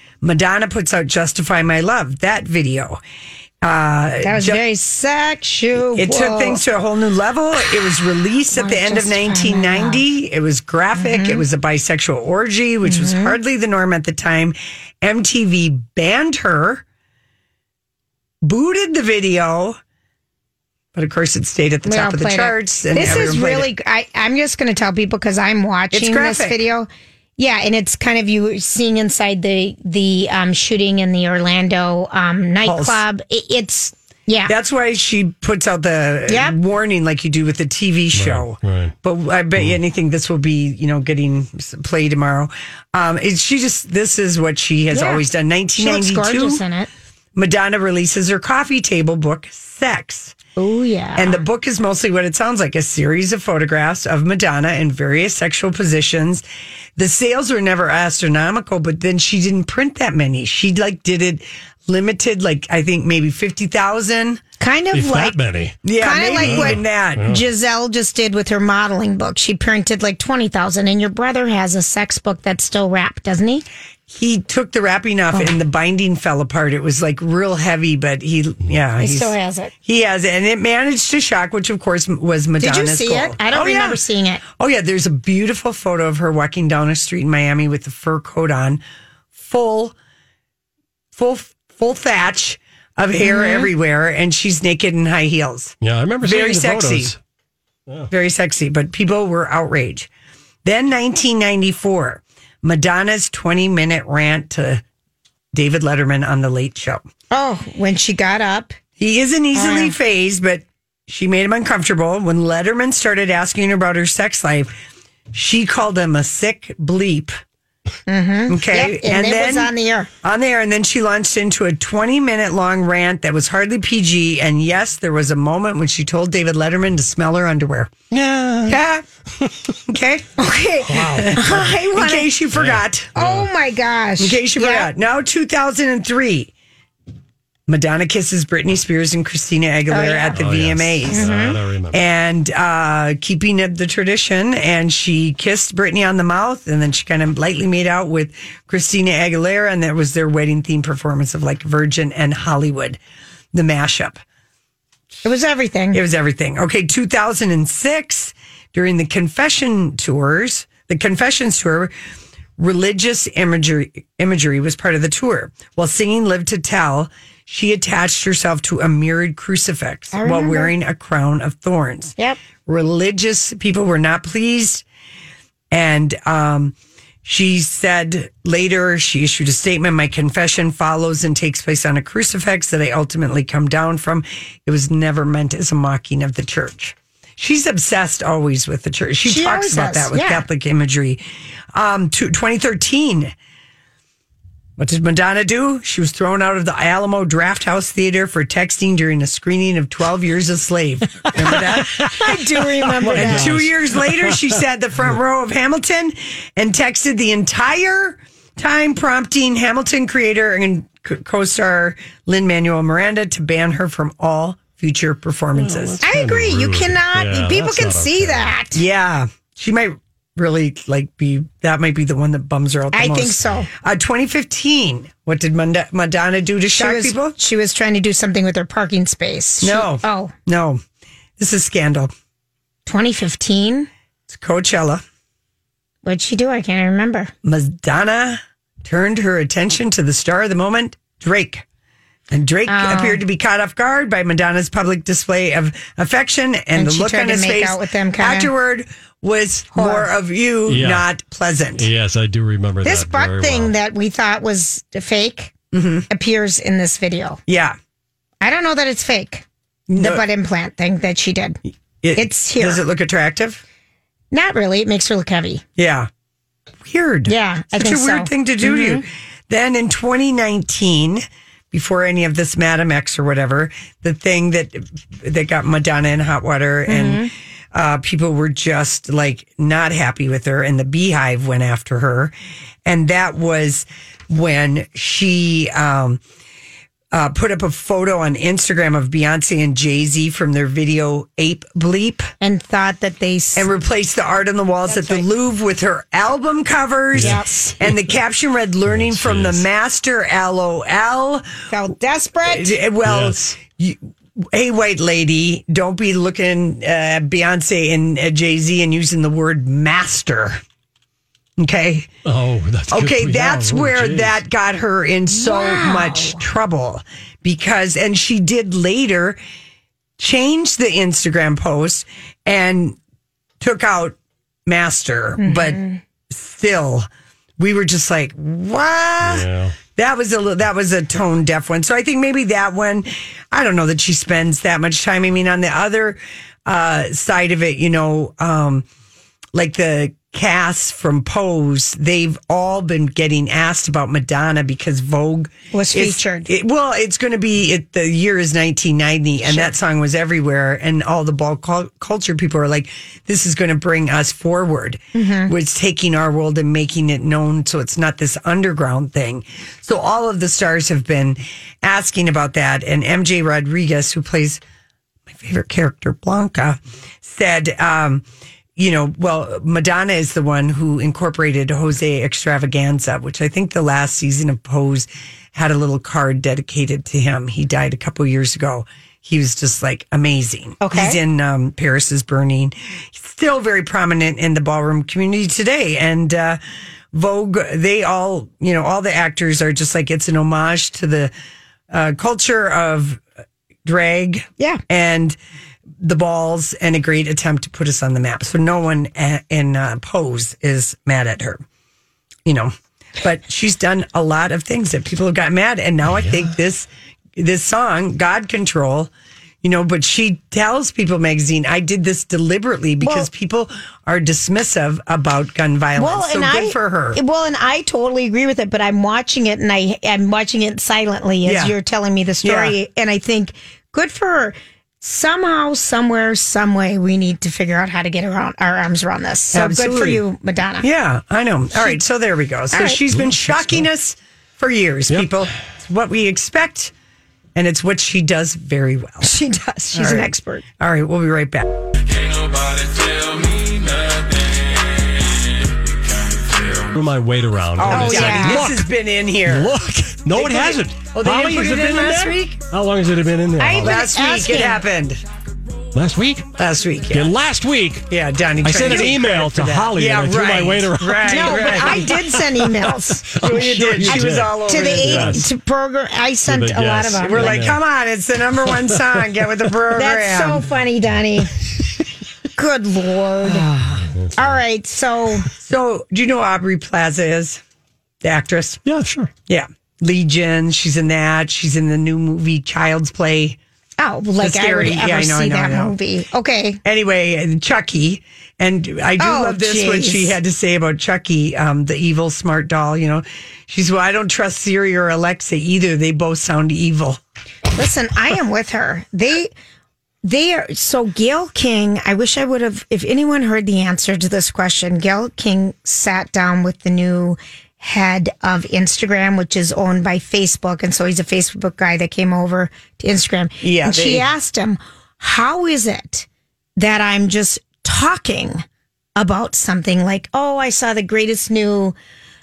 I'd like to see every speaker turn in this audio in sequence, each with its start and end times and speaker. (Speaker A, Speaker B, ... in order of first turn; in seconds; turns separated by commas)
Speaker A: 0.2-3.0, Speaker A: 3.6-4.6, Speaker B: 4.2-6.6, Speaker A: 5.9-16.8, Speaker B: 8.5-10.0, Speaker B: 10.9-11.4, Speaker B: 12.8-13.4, Speaker A: 18.4-19.8, Speaker A: 20.9-23.7, Speaker B: 21.8-34.5, Speaker A: 25.9-26.6, Speaker A: 32.6-33.0, Speaker A: 34.5-46.6, Speaker B: 36.3-36.5, Speaker C: 38.1-38.9, Speaker B: 44.9-45.2, Speaker B: 45.8-46.9, Speaker A: 47.3-50.3, Speaker B: 50.6-51.4, Speaker A: 51.1-56.4, Speaker A: 57.0-64.4, Speaker B: 64.6-65.4, Speaker C: 64.9-65.8, Speaker A: 65.8-67.3, Speaker B: 66.0-73.6, Speaker C: 66.3-67.4, Speaker A: 74.1-84.0, Speaker B: 79.0-79.7, Speaker B: 82.6-84.4, Speaker A: 84.5-88.8, Speaker A: 89.3-89.9, Speaker A: 91.1-97.2, Speaker B: 93.2-93.7, Speaker C: 95.8-97.2, Speaker A: 98.1-100.1, Speaker A: 100.6-104.8, Speaker A: 105.5-107.0, Speaker B: 107.3-108.8, Speaker A: 109.0-114.7, Speaker B: 109.5-109.9, Speaker A: 115.3-117.4, Speaker B: 118.1-120.1, Speaker A: 118.5-119.7, Speaker A: 120.2-127.9, Speaker C: 128.1-128.8, Speaker A: 128.7-129.0, Speaker A: 129.9-130.3, Speaker B: 130.4-132.3, Speaker C: 130.9-131.7, Speaker A: 130.9-133.2, Speaker C: 132.5-133.5, Speaker B: 133.2-134.9, Speaker A: 134.2-136.5, Speaker A: 137.7-141.3, Speaker B: 139.9-140.4, Speaker C: 140.3-142.0, Speaker B: 141.1-141.6, Speaker A: 141.9-153.0, Speaker A: 153.5-154.2, Speaker B: 155.2-156.0, Speaker A: 155.9-161.9, Speaker A: 162.6-172.1, Speaker B: 170.1-170.7, Speaker A: 172.7-174.8, Speaker A: 175.7-191.2, Speaker B: 189.2-190.4, Speaker A: 191.7-193.3, Speaker A: 194.8-202.4, Speaker B: 202.0-203.6, Speaker C: 203.0-204.5, Speaker A: 203.0-216.0, Speaker C: 215.6-218.5, Speaker B: 216.0-218.8, Speaker A: 218.7-227.3, Speaker B: 222.9-223.7, Speaker B: 226.8-230.3, Speaker A: 229.6-230.8, Speaker A: 231.4-232.1, Speaker B: 232.8-233.9, Speaker A: 234.3-235.0, Speaker B: 236.0-237.3, Speaker A: 237.4-241.6, Speaker A: 242.3-251.9, Speaker B: 242.7-243.2, Speaker B: 246.7-248.5, Speaker B: 249.7-250.1, Speaker C: 250.7-251.0, Speaker C: 251.8-253.7, Speaker B: 252.8-255.5, Speaker A: 255.7-256.1, Speaker B: 256.1-257.4, Speaker A: 257.5-257.8, Speaker B: 258.4-261.6, Speaker A: 259.9-260.2, Speaker A: 262.0-263.6, Speaker B: 262.1-262.8, Speaker B: 264.3-265.6, Speaker A: 265.8-266.1, Speaker A: 266.8-282.3, Speaker B: 267.3-269.0, Speaker B: 276.9-277.3, Speaker A: 282.8-286.2, Speaker A: 287.1-292.3, Speaker B: 292.4-293.7, Speaker A: 293.5-301.5, Speaker B: 294.9-295.2, Speaker C: 297.1-297.9, Speaker B: 297.1-297.8, Speaker C: 298.9-299.6, Speaker B: 301.7-302.8, Speaker A: 302.4-310.6, Speaker C: 303.0-303.4, Speaker A: 311.6-312.1, Speaker C: 312.2-314.4, Speaker A: 312.9-319.4, Speaker B: 315.3-316.4, Speaker A: 320.2-323.0, Speaker A: 323.6-327.1, Speaker B: 325.4-326.0, Speaker A: 327.6-338.8, Speaker C: 329.2-329.8, Speaker A: 339.5-364.6, Speaker B: 345.7-346.5, Speaker B: 349.4-349.7, Speaker B: 355.1-355.5, Speaker A: 365.3-368.2, Speaker A: 368.8-386.6, Speaker B: 380.8-381.2, Speaker A: 387.1-391.3, Speaker A: 391.9-393.2, Speaker A: 393.8-395.4, Speaker A: 396.0-401.6, Speaker A: 402.4-409.1, Speaker C: 406.1-406.5, Speaker A: 409.6-417.2, Speaker B: 413.0-413.3, Speaker B: 416.0-430.9, Speaker A: 421.4-421.7, Speaker A: 422.4-422.8, Speaker A: 429.5-430.2, Speaker A: 430.8-436.9, Speaker B: 432.7-433.0, Speaker C: 433.1-433.8, Speaker A: 437.5-439.3, Speaker B: 439.2-440.6, Speaker A: 439.9-441.7, Speaker C: 446.8-448.9, Speaker A: 447.8-449.7, Speaker B: 447.9-448.7, Speaker C: 449.4-453.9, Speaker A: 450.3-452.6, Speaker B: 453.6-454.8, Speaker A: 453.8-455.2, Speaker C: 455.9-456.5, Speaker A: 456.6-457.3, Speaker C: 457.1-458.1, Speaker A: 458.1-462.3, Speaker C: 458.6-462.2, Speaker B: 458.8-459.1, Speaker B: 461.3-463.3, Speaker C: 463.3-465.5, Speaker A: 463.3-465.5, Speaker B: 464.0-467.6, Speaker C: 466.5-467.8, Speaker A: 467.2-470.6, Speaker B: 469.9-471.5, Speaker B: 472.6-473.7, Speaker C: 474.0-474.6, Speaker B: 474.4-475.5, Speaker A: 475.6-477.6, Speaker A: 478.2-478.8, Speaker C: 478.9-479.3, Speaker A: 479.5-483.6, Speaker B: 484.0-486.8, Speaker A: 484.4-485.9, Speaker A: 486.8-497.2, Speaker B: 489.2-490.4, Speaker B: 497.7-499.5, Speaker B: 500.2-518.6, Speaker A: 513.6-514.3, Speaker B: 519.1-521.9